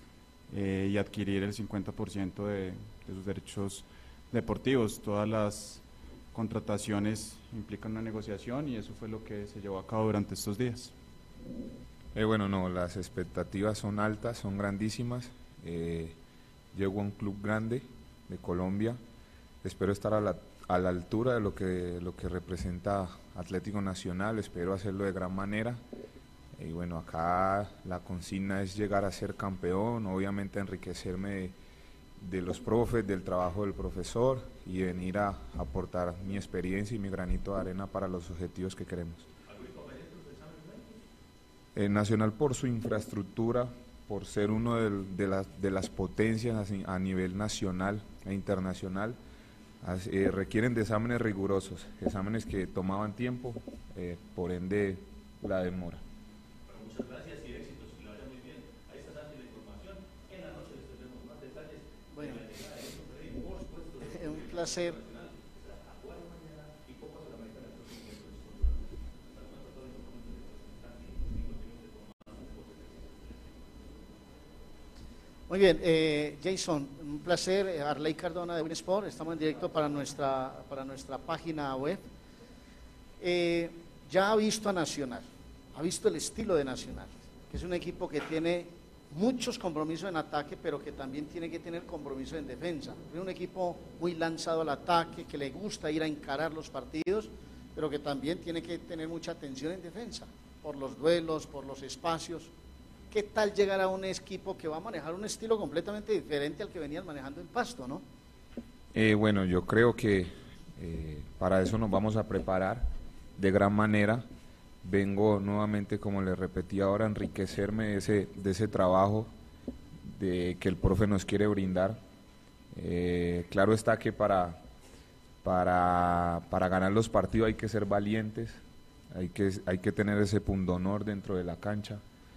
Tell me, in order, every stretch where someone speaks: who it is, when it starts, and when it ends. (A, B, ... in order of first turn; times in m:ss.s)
0:00.5-0:10.9 A
0:12.1-0:16.2 B
0:16.7-0:19.0 B
0:19.6-0:25.8 B
0:26.6-0:31.6 B
0:32.2-0:39.3 B
0:39.5-0:41.0 C
0:41.8-0:49.2 B
0:49.8-0:56.0 B
0:56.7-1:13.0 C
1:02.1-1:02.4 D
1:04.0-1:05.0 D
1:15.5-1:22.0 D
1:23.2-1:42.5 D
1:43.1-1:48.0 D
1:48.9-1:52.9 B
1:53.4-1:54.3 B
1:54.8-1:59.3 B
2:00.0-2:02.0 B
2:02.7-2:04.6 B
2:05.4-2:08.6 B
2:09.1-2:12.0 B